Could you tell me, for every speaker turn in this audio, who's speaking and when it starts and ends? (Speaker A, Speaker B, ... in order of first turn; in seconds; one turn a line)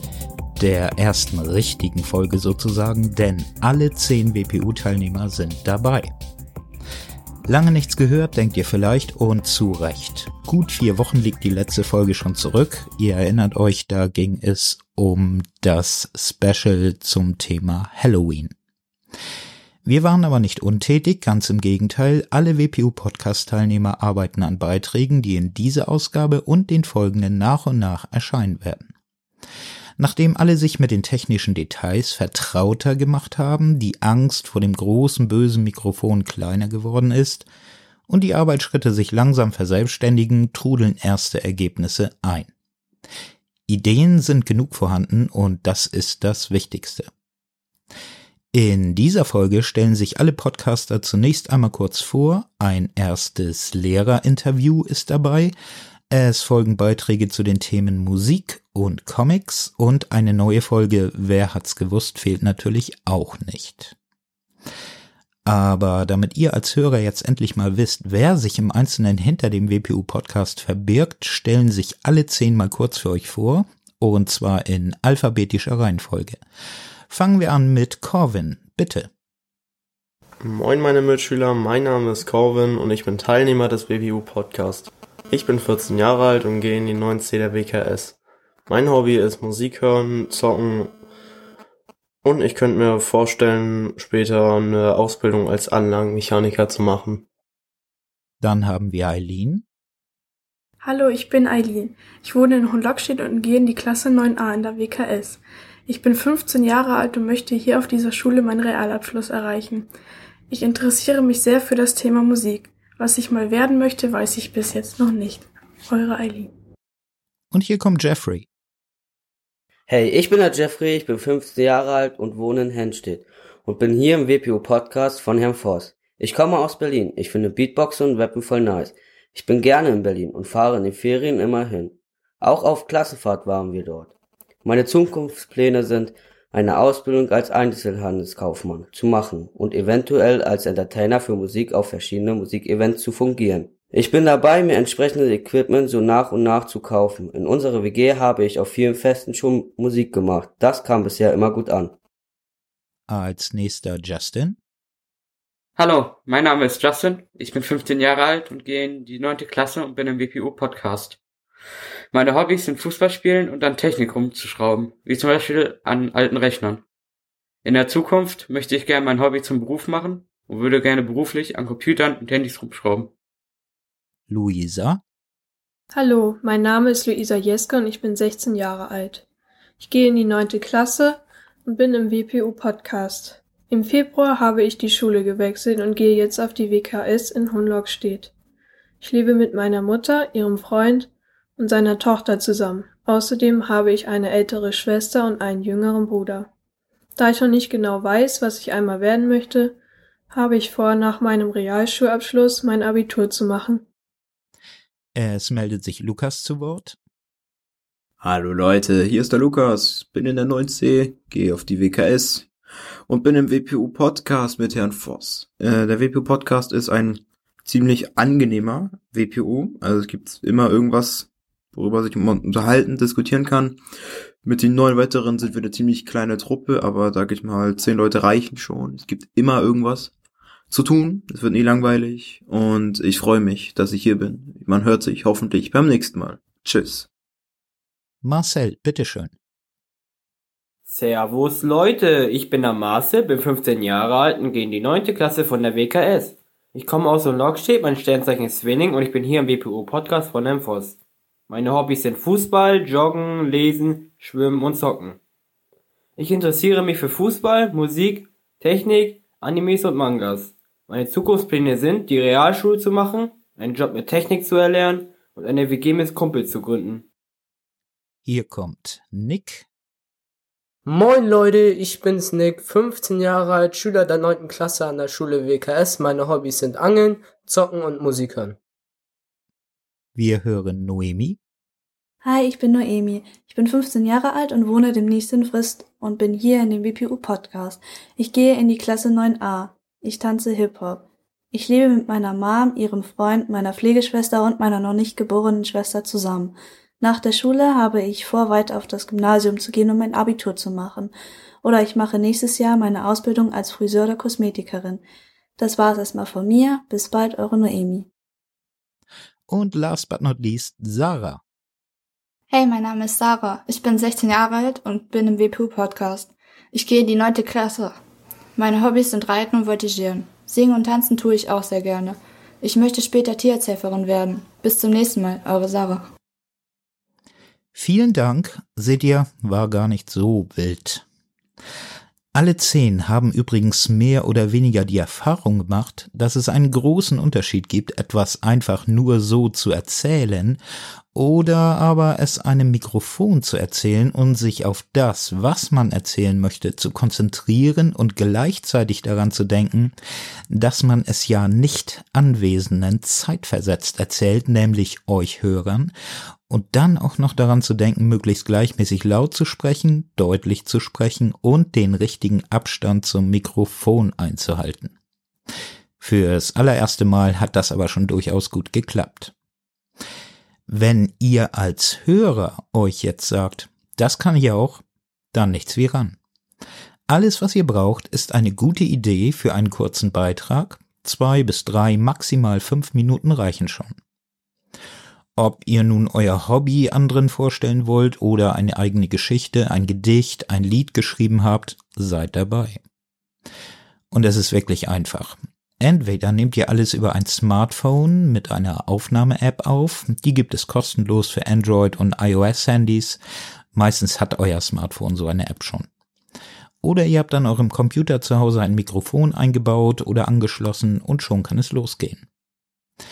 Speaker A: 0.6-6.1
Speaker A: 7.4-18.5
Speaker A: 19.8-28.9
Speaker A: 30.0-37.5
Speaker A: 38.1-42.5
Speaker A: 43.7-47.1
Speaker A: 48.5-55.5
Speaker A: 56.1-63.9
Speaker A: 65.5-76.4
Speaker A: 77.1-79.1
Speaker B: 80.4-91.0
Speaker B: 92.2-97.2
Speaker A: 98.4-99.6
Speaker C: 100.8-106.7
Speaker D: 100.9-105.4
Speaker D: 105.9-109.8
Speaker C: 107.6-109.9
Speaker C: 110.5-113.3
Speaker D: 110.5-116.4
Speaker C: 113.9-116.5
Speaker A: 117.5-118.5
Speaker E: 119.9-134.1
Speaker E: 134.6-151.9
Speaker A: 153.1-154.6
Speaker F: 155.8-161.2
Speaker F: 162.1-166.8
Speaker F: 167.6-173.1
Speaker A: 174.3-175.0
Speaker C: 175.9-179.2
Speaker C: 179.8-188.3
Speaker C: 189.0-196.5
Speaker C: 197.2-199.8
Speaker C: 200.3-203.8
Speaker A: 205.1-207.0
Speaker G: 208.2-212.5
Speaker G: 213.1-223.8
Speaker G: 224.4-230.1
Speaker G: 230.7-237.1
Speaker A: 238.2-239.3
Speaker H: 240.9-251.0
Speaker H: 251.5-255.2
Speaker H: 256.2-267.1
Speaker A: 268.2-269.7
Speaker I: 270.9-278.6
Speaker A: 280.1-281.4
Speaker J: 282.2-301.1
Speaker J: 301.6-305.0
Speaker J: 305.6-308.1
Speaker A: 309.5-311.4
Speaker K: 312.5-317.9
Speaker K: 318.6-326.1
Speaker A: 327.7-331.0
Speaker A: 332.3-340.6
Speaker A: 341.1-349.9
Speaker A: 350.5-355.9
Speaker A: 356.5-364.9
Speaker A: 366.0-369.3
Speaker A: 370.7-376.2
Speaker A: 377.1-384.0
Speaker A: 385.4-392.8
Speaker A: 394.1-403.2
Speaker A: 403.7-405.9
Speaker A: 406.8-412.2